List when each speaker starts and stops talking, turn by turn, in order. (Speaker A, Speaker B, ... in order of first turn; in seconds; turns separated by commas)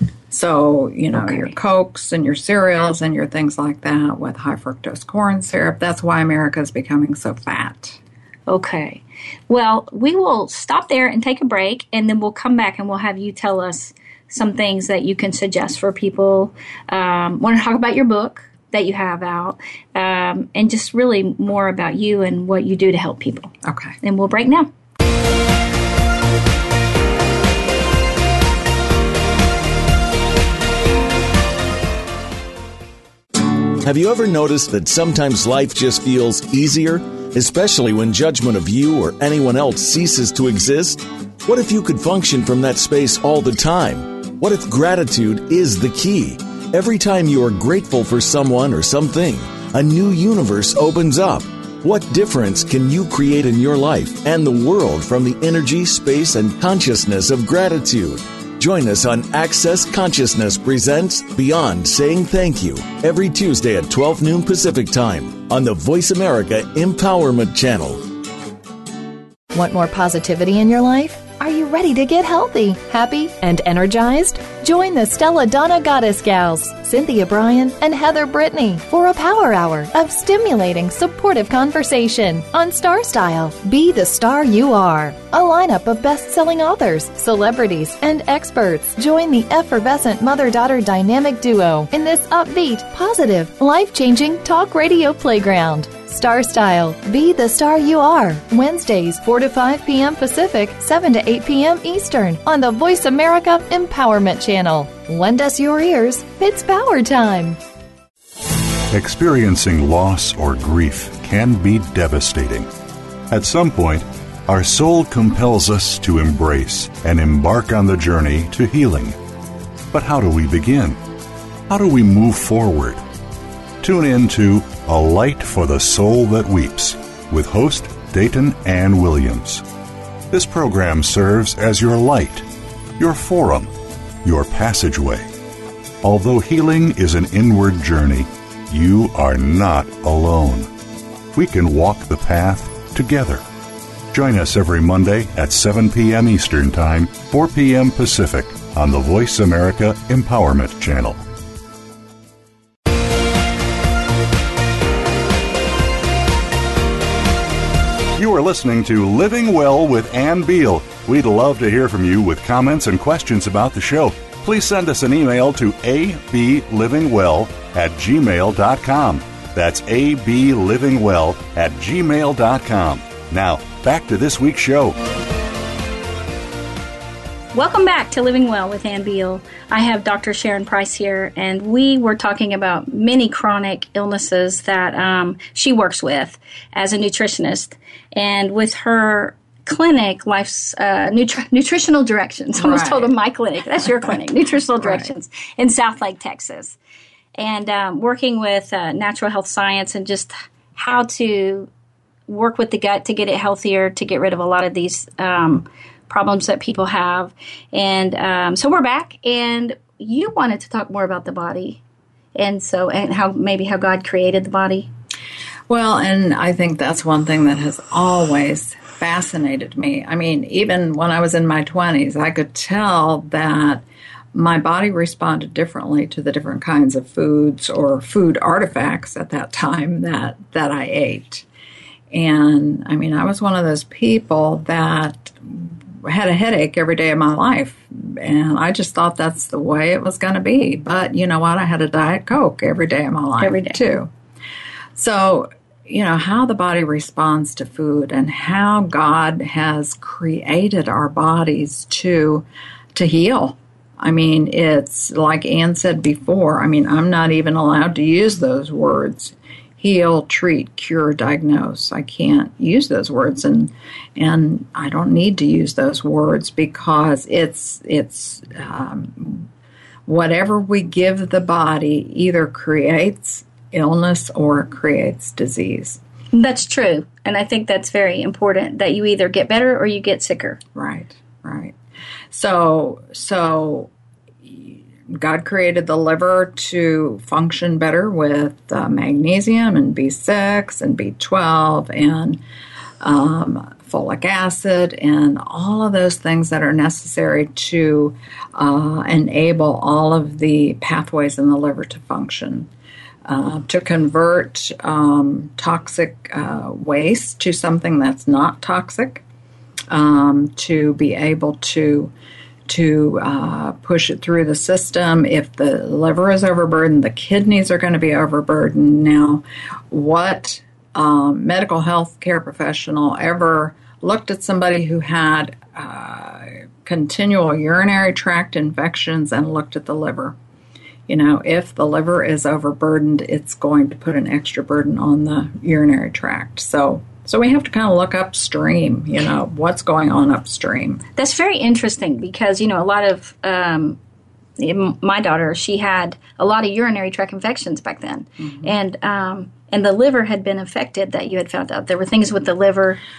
Speaker A: 0.3-8.0, Speaker B: 1.1-1.5, Speaker B: 8.5-24.7, Speaker A: 23.6-23.9, Speaker C: 33.8-68.0, Speaker D: 69.5-107.6, Speaker E: 108.9-112.7, Speaker E: 113.3-119.2, Speaker E: 119.9-121.0, Speaker E: 121.7-123.0, Speaker E: 123.8-129.6, Speaker E: 130.3-132.4, Speaker E: 133.0-133.7, Speaker E: 134.2-135.2, Speaker E: 136.0-140.7, Speaker E: 141.3-143.4, Speaker E: 144.1-151.2, Speaker E: 158.2-175.0, Speaker B: 177.5-196.8, Speaker A: 192.6-193.1, Speaker B: 197.3-201.7, Speaker B: 202.3-211.8, Speaker B: 212.3-214.9, Speaker A: 215.7-231.4, Speaker A: 232.1-244.1, Speaker B: 243.4-243.8, Speaker A: 244.9-269.5, Speaker A: 270.1-276.0, Speaker B: 276.3-280.6, Speaker A: 280.7-281.8, Speaker A: 282.3-283.9, Speaker A: 284.4-292.4, Speaker A: 293.0-302.7, Speaker A: 303.2-309.2, Speaker A: 309.9-312.1, Speaker A: 312.7-330.3, Speaker A: 331.1-341.0, Speaker B: 341.2-344.0, Speaker B: 344.6-353.0